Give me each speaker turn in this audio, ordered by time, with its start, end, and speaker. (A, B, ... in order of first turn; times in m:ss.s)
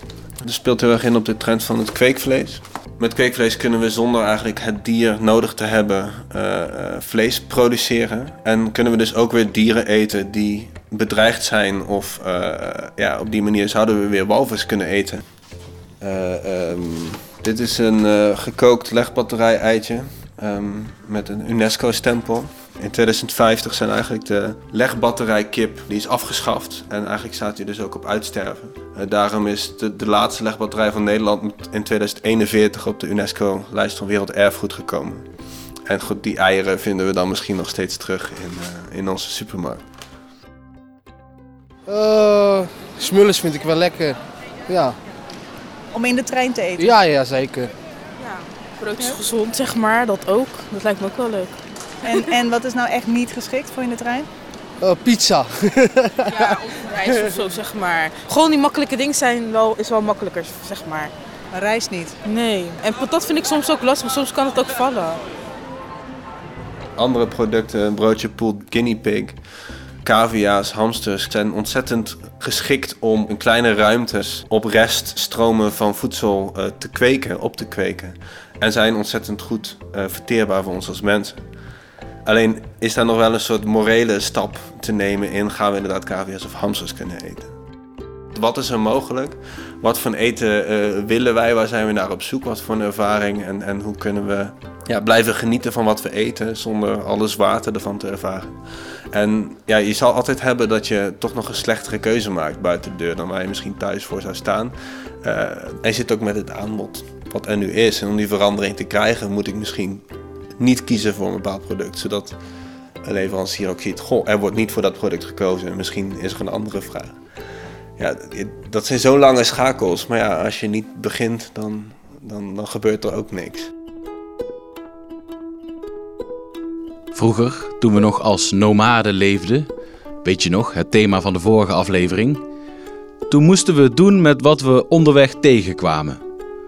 0:00.4-0:15.2 A
0:16.0-0:35.3 A
0:35.9-0:39.8 A
0:41.9-0:44.2 B
0:44.7-0:45.0 B
0:45.9-0:47.0 C
0:46.8-0:47.7 B
0:48.2-0:51.6 D
0:52.0-0:54.3 C
0:54.8-0:56.4 B
0:56.3-1:01.1 D
1:01.5-1:02.2 C
1:02.2-1:05.2 D
1:07.0-1:09.4 A
1:10.0-1:21.4 A
1:22.2-1:27.5 A
1:28.3-1:38.6 A
1:39.1-1:50.0 A
1:50.6-1:52.4 A
1:53.0-1:57.2 A
1:58.0-2:03.7 A
2:07.1-2:09.7 E
2:10.2-2:12.4 E
2:13.3-2:16.2 E